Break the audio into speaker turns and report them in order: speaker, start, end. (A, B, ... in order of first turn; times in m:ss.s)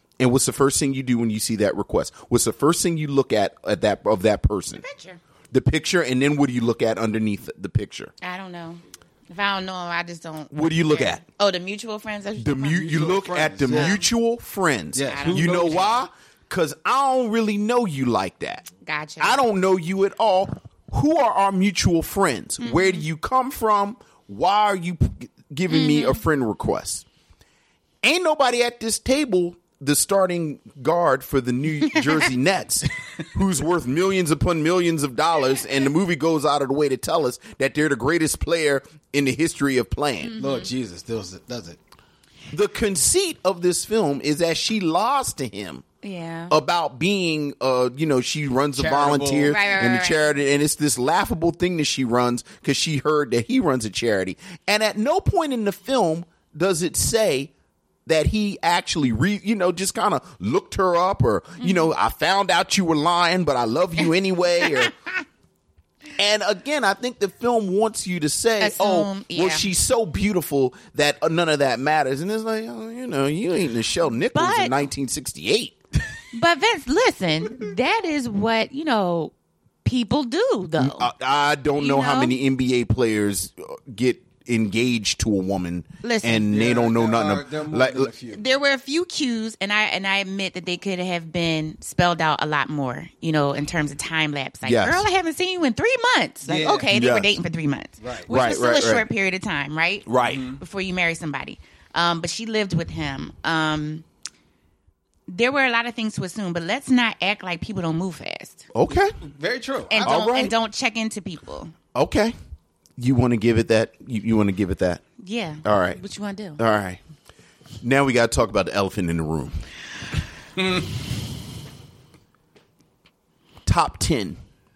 0:00.2-0:04.8 A
0:04.8-0:05.2 B
0:05.5-0:08.1 A
0:08.2-0:13.1 B
0:10.5-0:11.2 A
0:12.4-0:18.7 A
0:12.7-0:14.0 C
0:13.7-0:14.0 B
0:14.9-0:16.0 C
0:15.1-0:15.9 B
0:18.8-0:19.4 B
0:19.2-0:27.0 A
0:22.6-0:23.0 B
0:25.7-0:26.2 B
0:28.0-0:40.3 A
0:40.2-0:40.7 B
0:40.4-0:41.8 C
0:42.5-0:45.8 A
0:46.0-0:46.5 B
0:46.5-0:57.5 A
0:48.8-0:49.6 C
0:49.5-0:50.3 B
0:58.1-1:04.9 A
1:01.6-1:01.9 B
1:06.2-1:15.8 A
1:08.6-1:09.7 B
1:14.3-1:14.8 B
1:16.3-1:19.3 B
1:19.8-1:21.1 B
1:20.8-1:28.1 A
1:21.8-1:22.4 B
1:26.0-1:26.5 B
1:26.4-1:28.4 C
1:28.3-1:44.0 B
1:34.6-1:35.1 A
1:36.4-1:36.9 C
1:36.9-1:37.3 A
1:38.0-1:38.3 C
1:38.3-1:39.1 A
1:40.1-1:40.4 A
1:40.2-1:40.6 C
1:45.3-1:48.7 B
1:48.7-1:49.1 A
1:48.9-1:50.4 C
1:49.9-1:51.7 B
1:50.0-1:50.5 A
1:51.9-1:52.4 A
1:53.0-1:55.0 A
1:55.2-1:56.6 B
1:55.6-1:56.0 A
1:56.6-1:57.0 A
1:57.8-1:59.6 A
2:00.6-2:00.9 C
2:03.7-2:04.4 A